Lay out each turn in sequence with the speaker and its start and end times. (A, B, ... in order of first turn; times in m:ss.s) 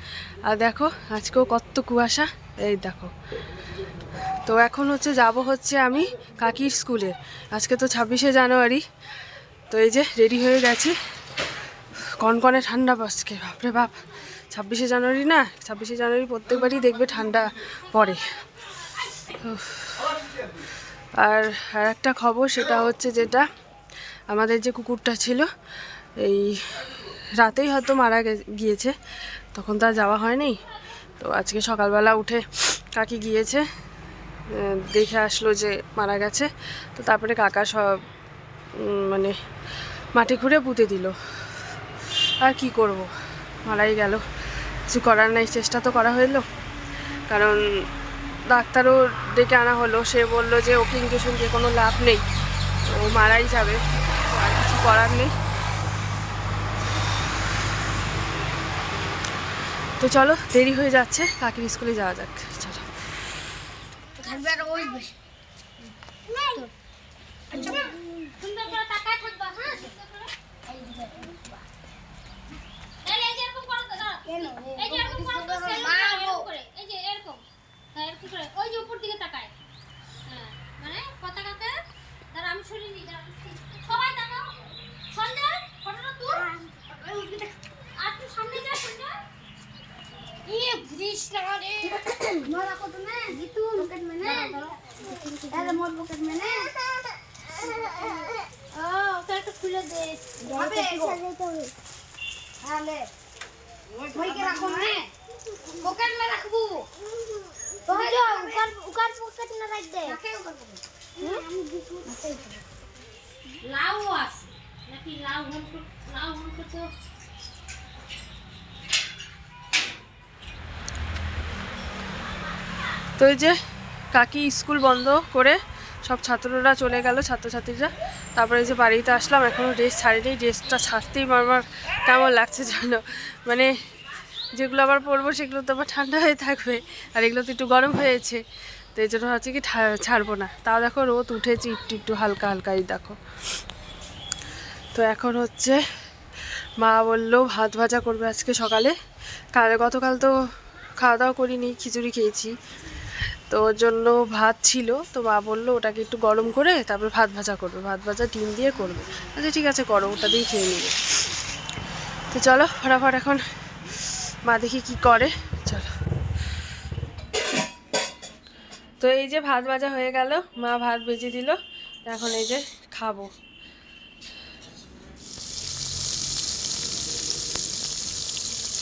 0:00.4-0:03.1 A
0:04.4-0:08.8 A
0:09.7-0:11.0 A
0:12.0-0:14.0 A
0:14.5-0:18.2 A
0:19.2-0:20.2 A
0:21.2-0:23.5 A
0:24.3-0:25.5 A
0:26.2-0:29.0 A
0:29.5-0:30.6 A
0:31.2-0:33.7 A
0:34.5-0:38.0 A
0:38.8-0:39.4 A
0:40.1-0:41.5 A
0:42.4-0:43.1 A
0:43.6-0:44.2 A
0:44.9-0:46.5 A
0:47.3-0:47.8 A
0:48.5-0:52.2 A
0:52.8-0:55.4 A
1:00.0-1:02.9 A
1:04.2-1:05.1 B
1:04.5-1:05.0 C
1:06.3-1:06.7 B
1:07.5-1:10.3 C
1:07.5-1:08.0 B
1:10.7-1:11.4 B
1:13.0-1:17.4 C
1:14.3-1:16.5 B
1:17.9-1:19.5 C
1:20.3-1:21.8 C
1:22.3-1:24.6 C
1:25.1-1:26.5 C
1:26.4-1:27.5 B
1:28.0-1:29.1 C
1:30.5-1:32.1 C
1:32.1-1:34.6 B
1:33.4-1:35.8 C
1:35.5-1:36.7 B
1:37.6-1:38.4 B
1:38.7-1:41.2 C
1:40.4-1:41.7 B
1:42.6-1:43.1 B
1:44.2-1:45.1 B
1:44.2-1:45.1 C
1:45.9-1:46.9 C
1:47.9-1:50.6 B
1:47.9-1:48.6 C
1:51.2-1:52.6 B
1:53.6-1:56.9 C
2:03.2-2:03.6 A
2:04.1-2:13.7 A
2:14.6-2:18.4 A
2:19.0-2:23.2 A
2:24.9-2:25.8 A
2:26.8-2:29.0 A
2:29.6-2:30.4 A
2:31.0-2:32.5 A
2:33.5-2:41.0 A
2:42.3-2:45.9 A
2:49.0-2:53.3 A